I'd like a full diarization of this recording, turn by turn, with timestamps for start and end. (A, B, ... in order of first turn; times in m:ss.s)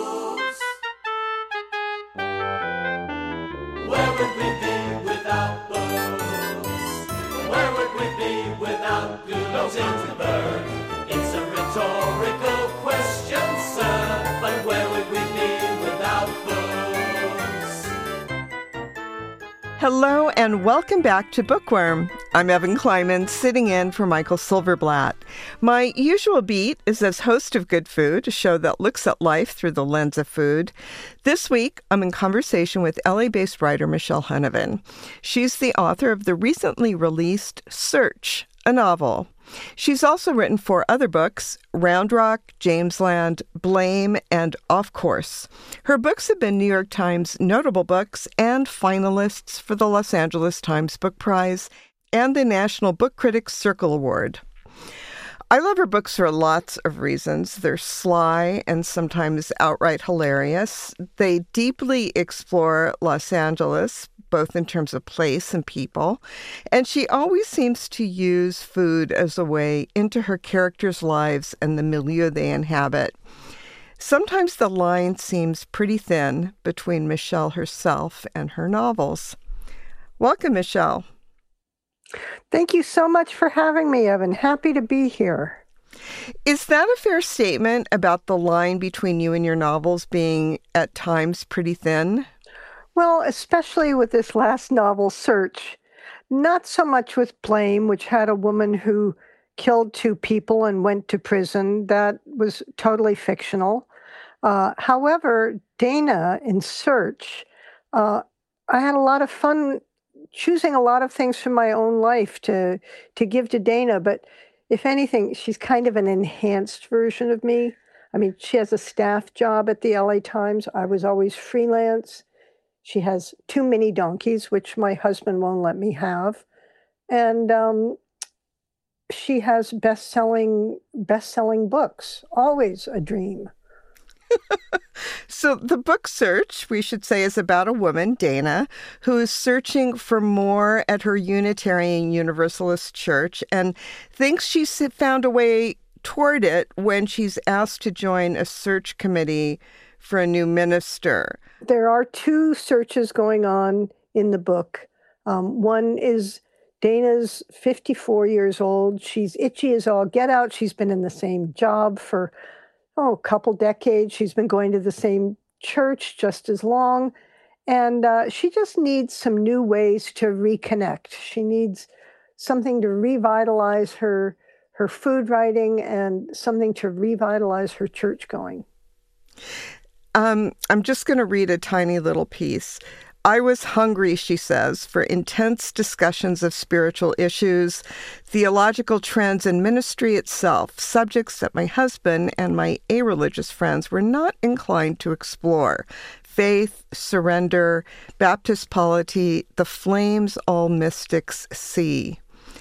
0:03.8-0:17.9 A
0:19.8-0:30.7 B
0:31.2-0:54.4 B
0:55.5-1:06.2 B
1:06.7-1:13.2 B
1:14.0-1:19.4 B
1:20.2-1:21.1 B
1:22.5-1:25.6 C
1:26.5-1:32.3 B
1:33.0-1:35.8 C
1:36.3-1:43.9 C
1:44.4-1:49.8 C
1:50.3-2:02.2 C
2:02.8-2:06.4 C
2:07.1-2:08.0 C
2:09.1-2:13.5 C
2:15.3-2:31.4 B
2:31.6-2:42.3 C
2:43.0-2:47.1 C
2:47.7-2:58.6 C
3:00.2-3:22.2 B